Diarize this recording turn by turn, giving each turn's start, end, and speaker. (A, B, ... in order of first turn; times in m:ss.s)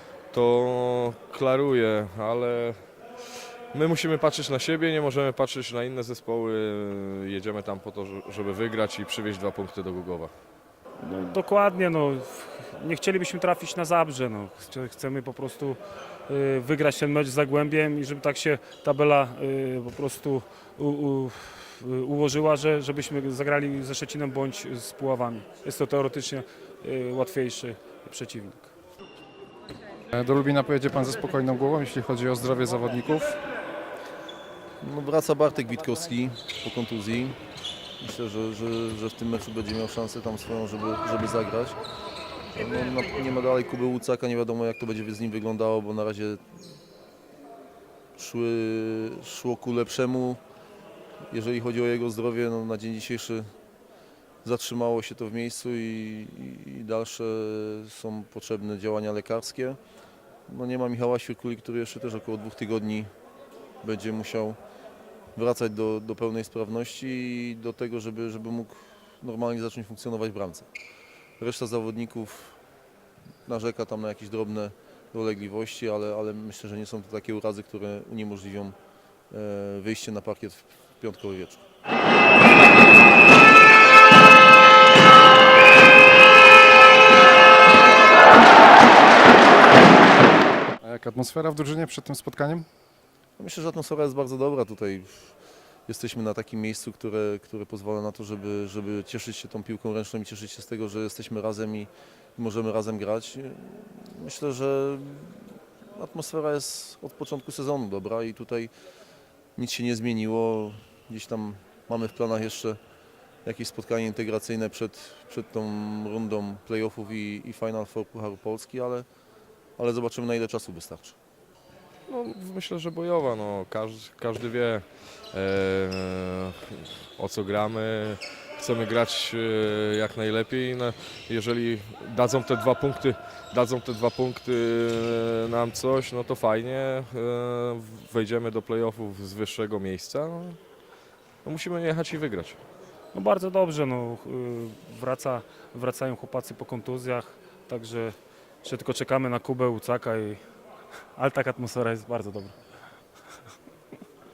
0:00.3-0:10.3 A
0:11.0-0:28.7 B
0:30.1-0:33.4 C
0:34.8-0:37.4 D
0:38.0-0:41.8 D
0:42.5-0:46.6 D
0:48.2-0:50.4 D
0:51.3-0:53.5 D
0:54.4-0:59.8 D
1:00.5-1:03.1 D
1:03.8-1:04.6 D
1:05.4-1:10.7 D
1:11.4-1:12.6 D
1:13.5-1:18.8 D
1:19.3-1:21.6 D
1:30.8-1:32.7 C
1:33.4-1:35.4 D
1:35.9-1:48.7 D
1:49.6-1:52.8 D
1:53.4-1:59.1 D
1:59.8-2:01.2 D
2:02.1-2:20.6 A
2:21.4-2:22.6 A
2:23.1-2:30.4 B
2:31.1-2:32.6 B